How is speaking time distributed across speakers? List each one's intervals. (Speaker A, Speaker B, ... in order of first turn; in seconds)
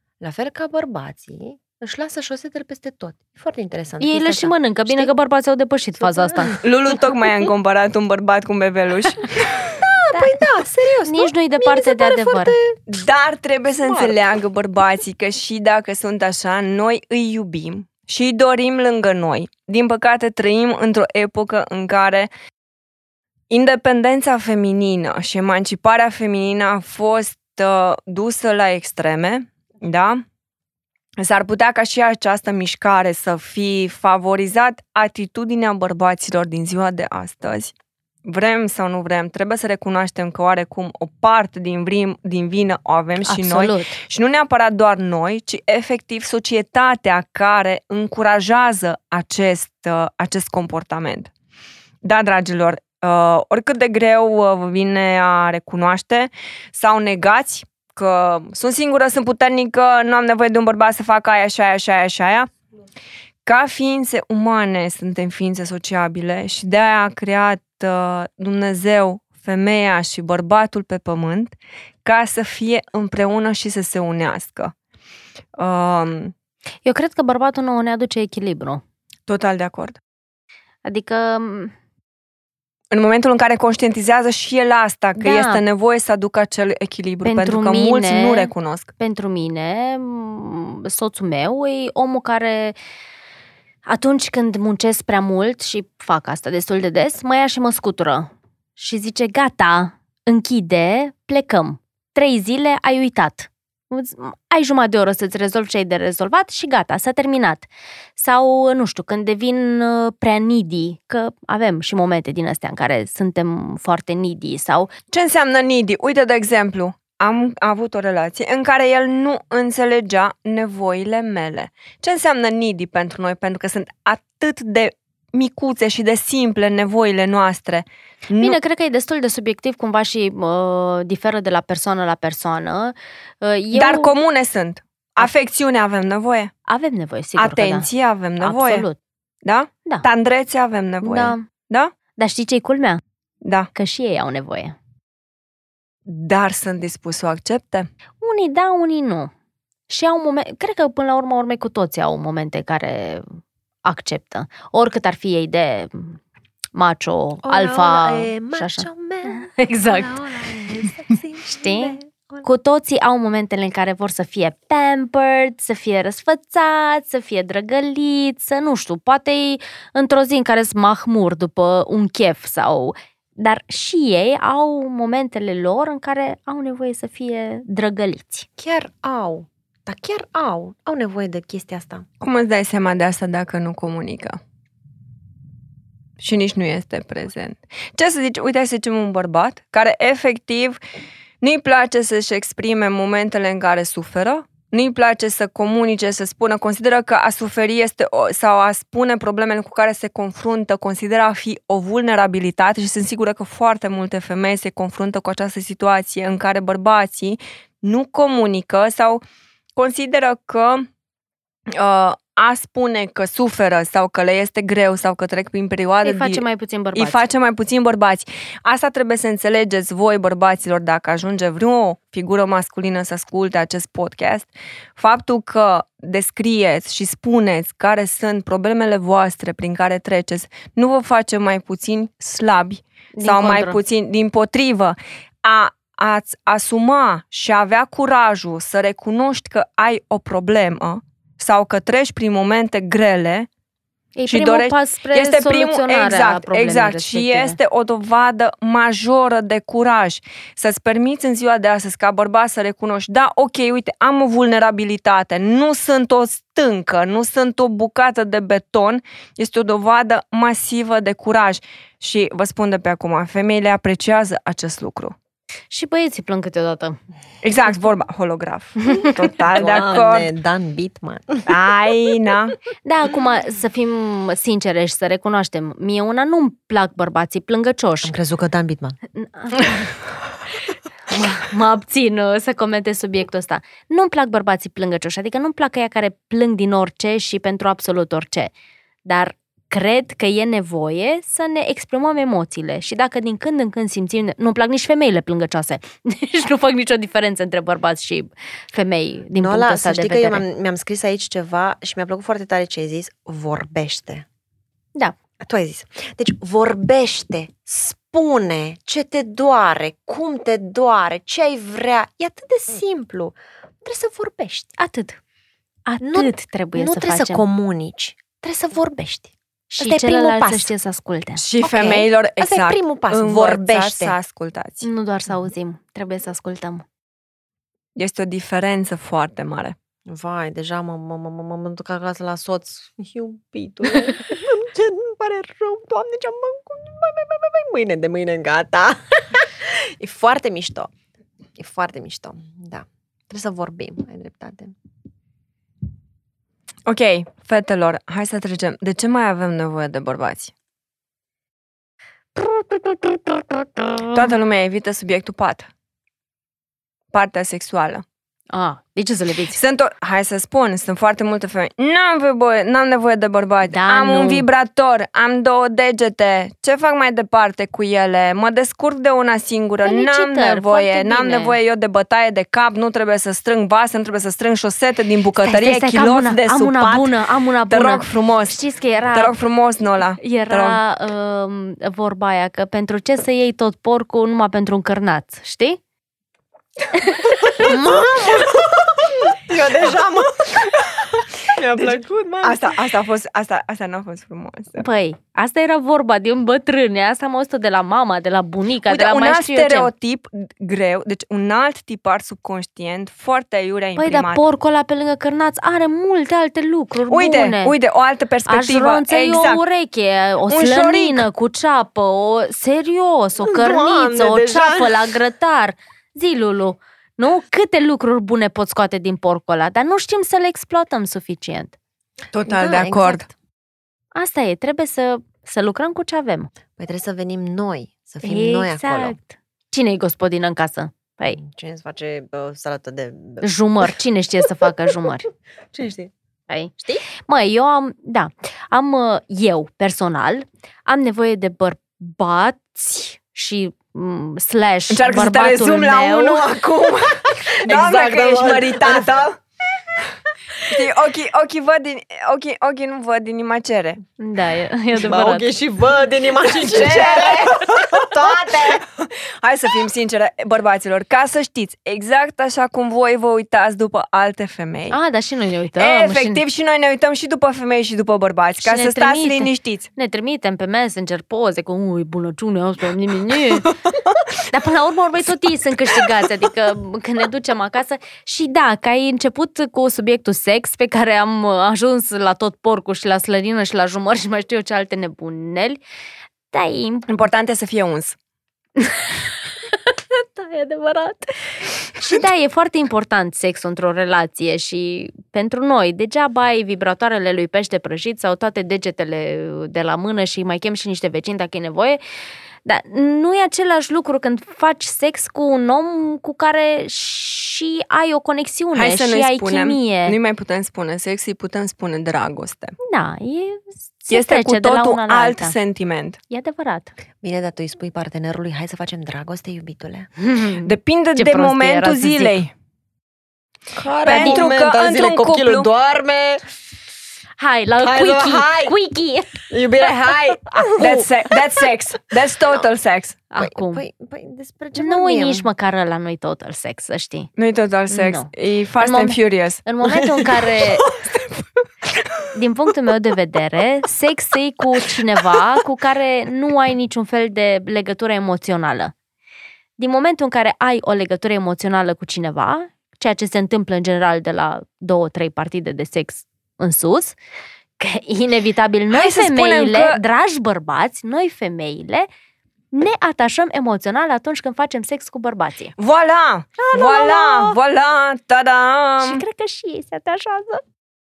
Speaker A: 0.2-5.1, 6.0-6.6, 9.7-12.8, 13.8-14.2, 157.4-162.4, 178.6-182.1, 269.5-271.5, 278.0-279.0, 299.4-304.3, 305.4-314.7, 316.0-320.7, 321.6-324.1, 330.1-340.9, 341.6-344.8, 387.6-392.8, 413.4-415.1, 422.5-423.3, 426.8-429.2, 431.4-433.5, 435.7-436.1, 447.1-449.3, 455.0-458.8, 517.2-520.1, 523.8-526.5, 527.8-528.8, 529.5-531.6, 533.4-535.5
Speaker B: 4.0-6.6, 10.1-10.4, 11.1-12.6, 43.2-43.9, 76.8-78.8, 80.8-81.7, 85.2-85.6, 87.2-92.8, 93.9-114.9, 128.4-134.1, 136.7-137.9, 138.4-139.0, 141.0-141.4, 142.2-143.0, 143.8-144.8, 148.2-149.3, 149.9-156.2, 156.8-160.3, 161.5-178.5, 216.0-217.2, 233.2-233.8, 244.2-247.6, 265.7-267.0, 268.9-269.9, 272.9-278.1, 279.1-279.9, 281.1-288.5, 289.1-300.4, 314.8-315.2, 315.9-317.4, 319.8-321.4, 324.8-326.9, 352.4-353.6, 358.5-359.6, 363.7-364.5, 369.9-371.6, 375.4-379.4, 380.2-385.8, 386.9-387.7, 394.8-399.9, 404.0-407.8, 408.5-421.7, 424.1-426.5, 428.2-431.4, 433.4-435.3, 436.5-446.6, 454.2-455.5, 464.9-466.4, 468.6-473.7, 474.5-485.8, 486.5-487.1, 488.8-502.0, 502.6-510.2, 512.8-515.5, 516.3-516.9, 520.2-522.4, 524.1-524.4, 527.4-529.5, 530.6-531.1, 533.3-533.8, 534.8-537.3, 537.9-540.9, 542.3-548.9, 549.8-557.2, 557.8-562.1, 562.7-565.7, 566.6-567.6, 569.0-570.6
Speaker C: 6.6-9.8, 12.9-22.3, 23.5-30.2, 31.2-37.7, 38.3-51.3, 52.0-62.5, 63.5-74.7, 75.6-76.3, 79.3-80.0, 82.9-88.9, 115.1-128.6, 133.7-136.5, 137.4-138.9, 139.4-141.9, 143.4-143.7, 146.1-147.9, 182.2-184.4, 186.2-190.8, 191.4-209.2, 209.8-210.9, 211.7-216.4, 216.9-243.5, 244.3-265.1, 267.4-270.3, 271.5-272.6, 321.4-324.9, 328.0-329.8, 346.9-350.5, 354.1-355.7, 357.1-358.0, 359.5-377.2, 377.7-378.6, 379.1-380.8, 389.7-391.1, 391.7-394.9, 398.9-404.4, 407.1-409.6, 410.5-411.2, 422.3-423.3, 444.9-449.4, 450.7-454.0, 456.5-465.0, 465.8-469.9, 487.1-488.1, 508.7-512.8, 514.1-516.2, 520.6-522.5, 524.0-525.7, 530.8-533.2, 537.4-541.4, 558.9-560.0, 565.8-569.2